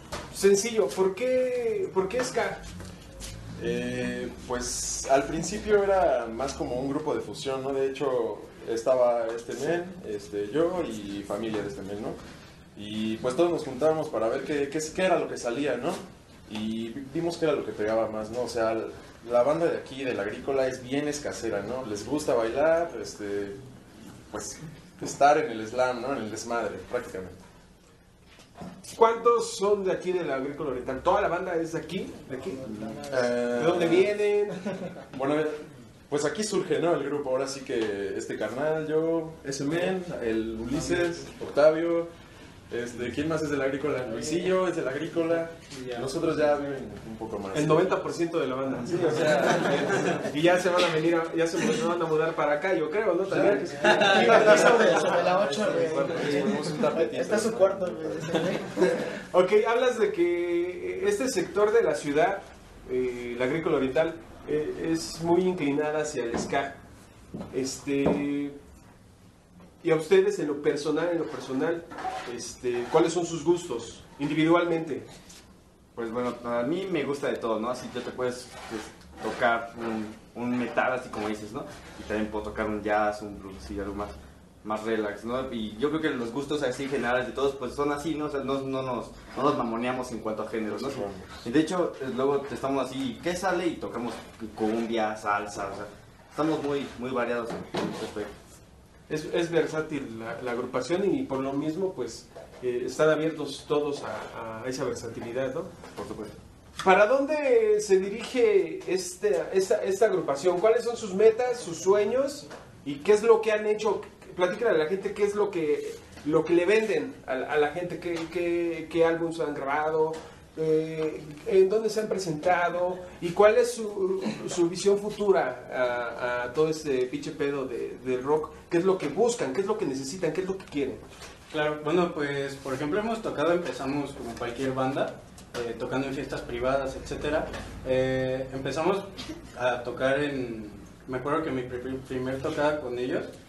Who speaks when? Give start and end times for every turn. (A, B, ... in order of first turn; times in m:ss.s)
0:00.3-0:02.6 A
0:03.6-0:12.2 B
0:12.8-0:27.4 B
0:28.9-0:32.6 A
0:32.2-0:33.7 C
0:33.1-0:34.1 B
0:33.5-0:34.6 A
0:35.1-0:42.1 B
0:42.7-0:48.0 B
0:45.7-0:46.6 D
0:47.5-0:55.3 A
0:48.9-0:50.2 B
0:53.2-0:58.3 B
0:53.9-0:59.1 C
0:59.3-1:06.8 A
1:07.5-1:08.6 A
1:09.8-1:15.1 A
1:15.9-1:38.3 E
1:30.7-1:31.4 B
1:39.1-1:45.7 A
1:45.9-1:46.3 E
1:46.8-2:11.0 A
2:11.5-2:23.3 D